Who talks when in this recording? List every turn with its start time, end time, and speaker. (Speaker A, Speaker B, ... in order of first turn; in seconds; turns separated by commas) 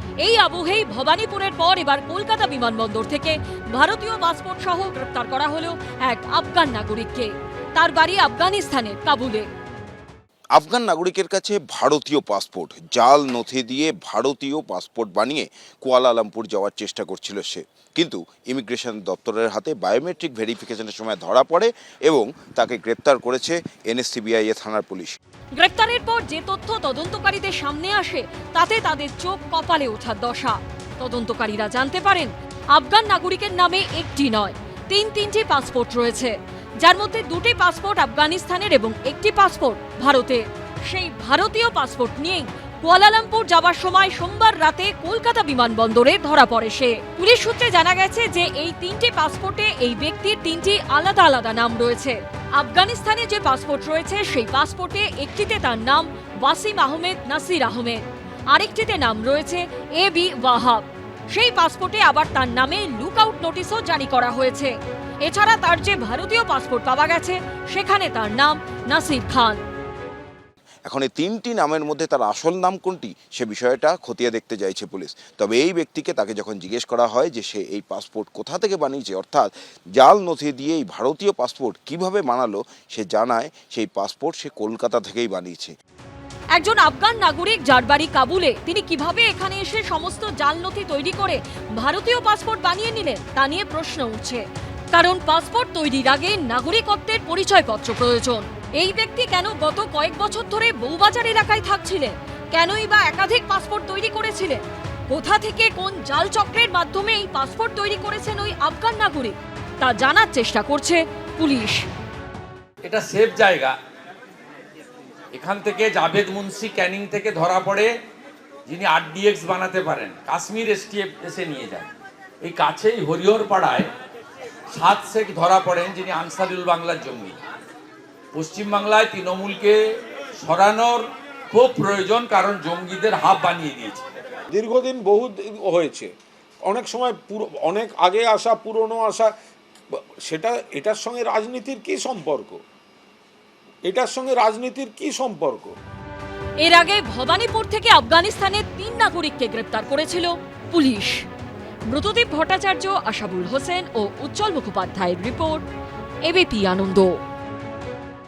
Speaker A: 0.2-9.5, Speaker B: 10.6-25.2, Speaker A: 25.6-69.6, Speaker B: 70.9-85.7, Speaker A: 86.5-111.8, Speaker C: 112.8-113.8, Speaker C: 115.3-117.9, Speaker C: 118.7-121.9, Speaker C: 122.4-123.9, Speaker C: 124.7-127.4, Speaker C: 128.3-129.8, Speaker C: 130.4-134.0, Speaker D: 134.5-136.1, Speaker D: 136.6-139.3, Speaker D: 139.9-142.6, Speaker D: 143.9-145.8, Speaker A: 146.6-151.2, Speaker A: 151.9-155.6, Speaker A: 156.3-157.2